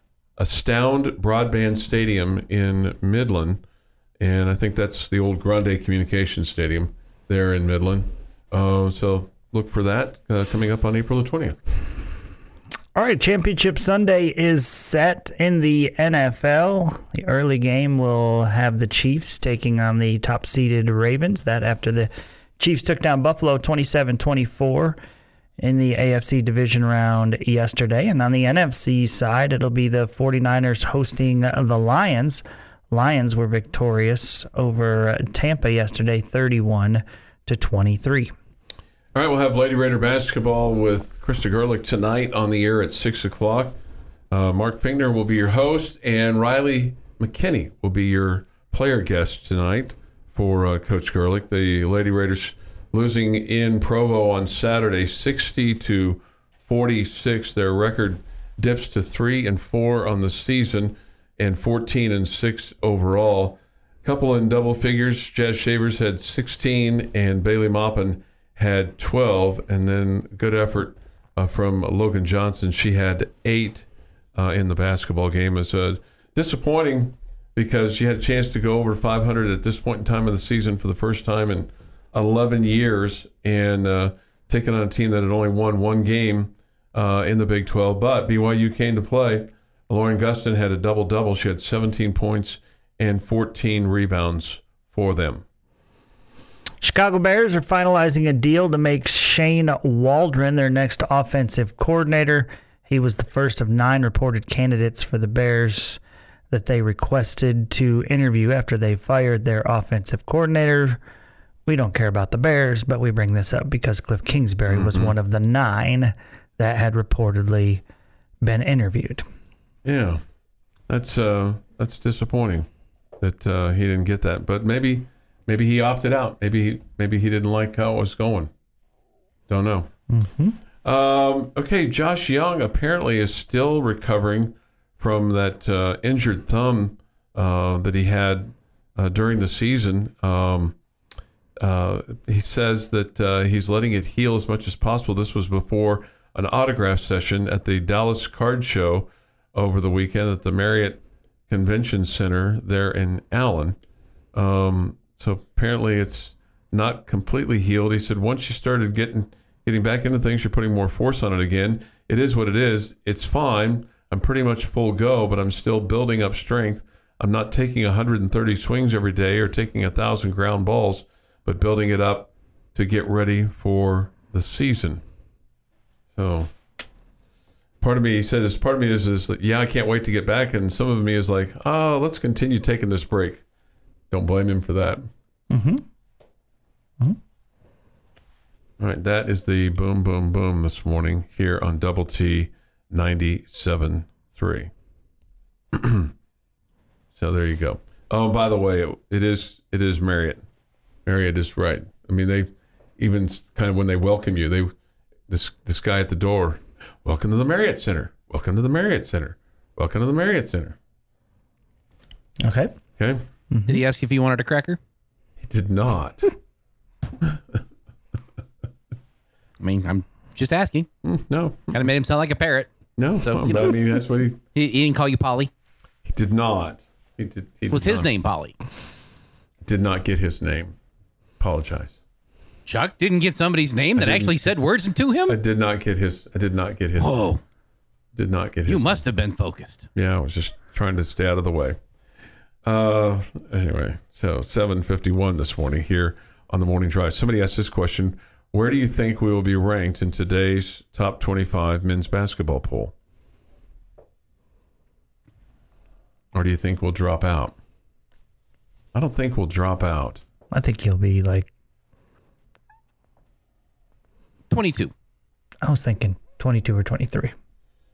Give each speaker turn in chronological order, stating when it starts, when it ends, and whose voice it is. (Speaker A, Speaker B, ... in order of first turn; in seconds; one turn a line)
Speaker A: 0.4-3.6
Speaker A: 4.2-11.6
Speaker B: 12.9-25.0
Speaker B: 25.6-38.3
Speaker A: 39.1-43.8
Speaker A: 44.3-95.4
Speaker B: 96.8-106.0
Speaker B: 106.5-111.0
Speaker B: 111.7-117.8
Speaker A: 114.7-115.1
Speaker B: 118.4-119.2
Speaker A: 119.8-120.2
Speaker A: 120.9-122.7
Speaker A: 123.2-128.5
Speaker A: 129.5-129.9
Speaker B: 130.1-130.6
Speaker A: 130.8-140.8
Speaker A: 141.6-153.8
Speaker A: 154.3-175.0
Speaker A: 176.1-176.5
Speaker A: 177.8-183.4
Speaker A: 184.1-185.1
Speaker B: 185.5-185.8
Speaker A: 188.8-194.7
Speaker A: 195.7-196.1
Speaker A: 197.1-200.4
Speaker A: 201.1-204.7
Speaker A: 205.3-210.8
Speaker B: 212.4-212.7
Speaker B: 213.5-213.8
Speaker C: 213.7-214.8
Speaker A: 215.4-216.3
Speaker A: 217.2-217.6
Speaker C: 219.6-220.9
Speaker A: 221.0-221.8
Speaker C: 221.7-222.7
Speaker A: 223.0-224.4
Speaker C: 223.2-223.7
Speaker C: 224.5-225.5
Speaker A: 226.0-228.1
Speaker C: 227.7-228.5
Speaker A: 229.6-230.7
Speaker A: 231.4-232.0
Speaker C: 232.7-235.4
Speaker A: 233.9-234.3
Speaker A: 235.3-237.1
Speaker C: 237.0-237.4
Speaker A: 238.1-239.0
Speaker C: 238.7-239.9
Speaker A: 239.9-241.8
Speaker A: 242.6-252.9
Speaker A: 256.3-257.5
Speaker A: 258.9-260.2
Speaker B: 260.5-261.5
Speaker C: 264.5-264.9
Speaker B: 265.6-267.3